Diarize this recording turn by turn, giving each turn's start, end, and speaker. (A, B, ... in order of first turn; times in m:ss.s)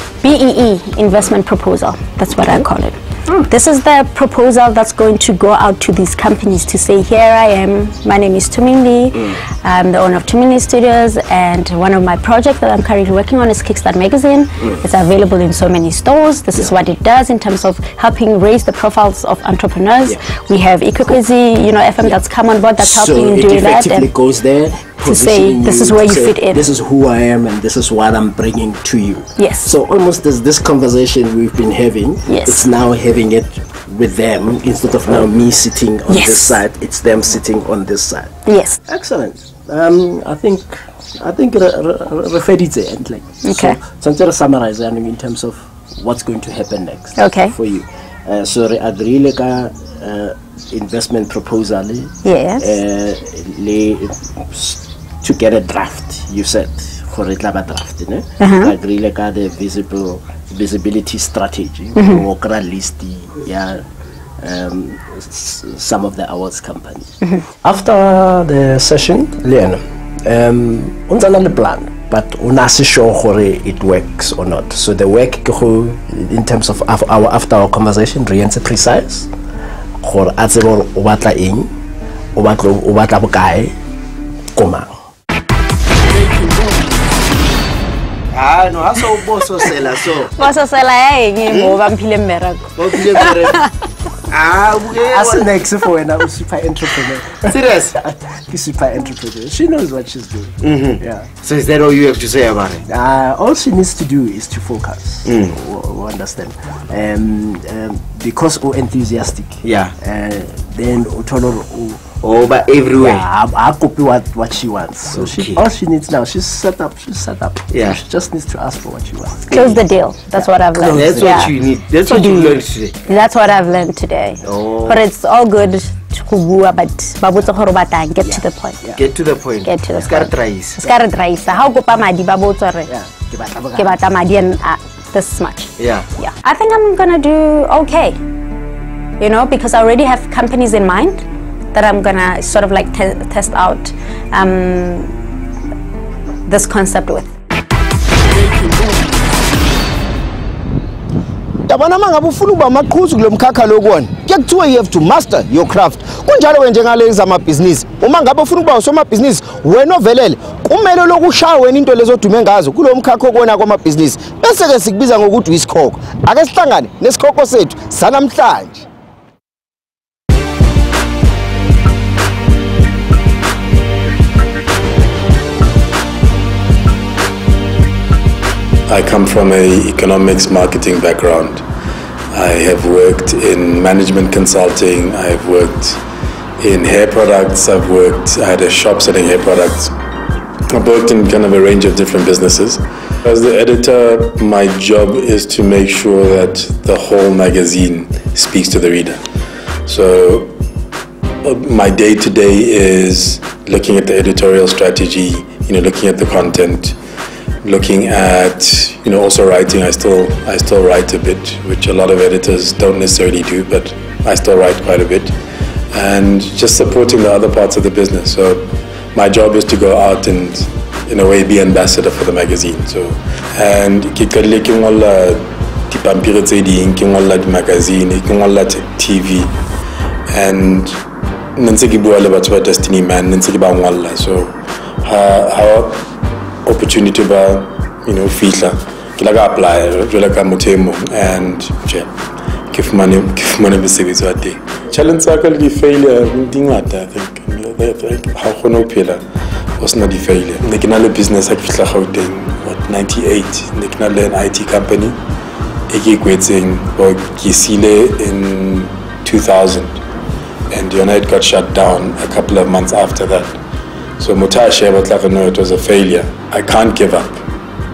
0:00.2-0:24.1 A
0:02.3-0:02.6 B
0:22.8-1:03.9 B
0:25.0-0:26.6 A
0:29.4-0:29.7 A
0:32.3-0:32.6 A
0:36.1-0:36.6 A
0:38.5-0:38.8 A
0:43.4-0:43.8 A
0:47.2-0:47.5 A
0:52.2-0:52.7 A
0:58.4-0:58.7 A
1:02.0-1:02.2 A
1:04.4-1:19.3 B
1:20.0-1:21.7 B
1:22.4-1:23.8 B
1:24.6-1:25.0 B
1:28.3-1:30.3 C
1:30.4-1:33.6 A
1:32.8-1:33.6 C
1:34.3-1:35.5 C
1:35.0-1:41.3 B
1:37.4-1:38.0 C
1:40.6-1:42.8 C
1:42.9-1:52.0 B
1:45.3-1:45.6 C
1:49.6-1:49.9 C
1:52.2-1:53.3 C
1:53.0-1:59.8 B
1:55.1-1:55.7 C
1:57.7-1:58.0 C
1:59.5-2:08.8 A
2:00.4-2:01.6 B
2:00.9-2:03.0 C
2:04.4-2:05.0 C
2:08.2-2:09.0 B
2:09.0-2:10.8 C
2:09.6-2:12.9 A
2:12.9-2:14.0 B
2:13.8-2:18.2 A
2:15.8-2:16.1 C
2:19.2-2:25.1 A
2:26.5-2:27.3 A
2:31.7-2:48.8 C
2:58.9-3:01.6 D
3:02.3-3:06.0 D
3:06.6-3:09.9 D
3:10.7-3:19.2 D
3:19.9-3:20.5 D
3:21.4-3:27.0 D
3:27.6-3:35.4 D
3:35.9-3:49.5 D
3:50.3-3:51.0 D
3:51.6-3:56.0 D
3:56.6-4:02.1 D
4:02.7-4:09.2 D
4:09.8-4:15.2 D
4:15.9-4:20.0 D
4:20.7-4:23.6 D
4:24.2-4:27.4 D